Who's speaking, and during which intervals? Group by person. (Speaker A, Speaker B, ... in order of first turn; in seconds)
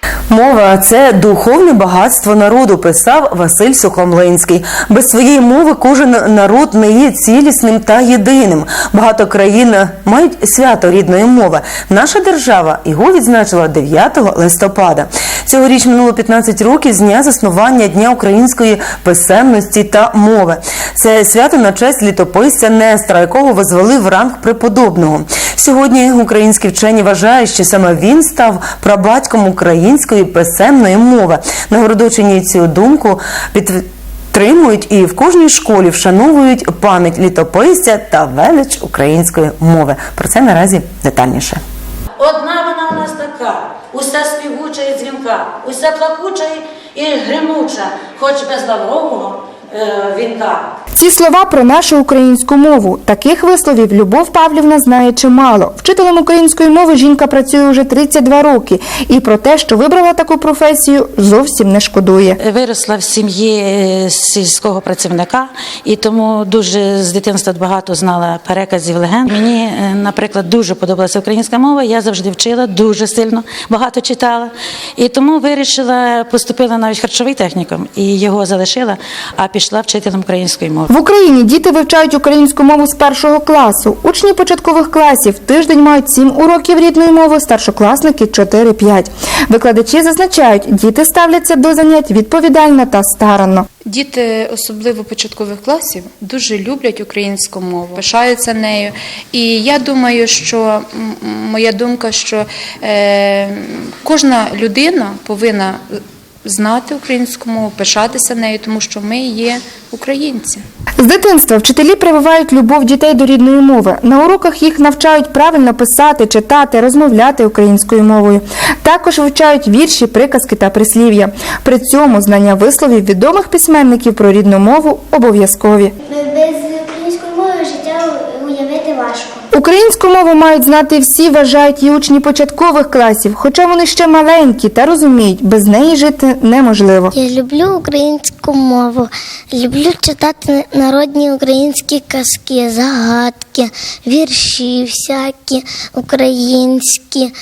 Speaker A: 0.3-41.6
Speaker B: 42.2-50.7, 62.4-80.9
Speaker C: 50.9-62.4, 80.9-93.7, 111.0-125.9, 129.5-137.1
Speaker D: 93.8-105.8, 106.4-110.6
Speaker E: 126.0-129.4, 137.1-147.3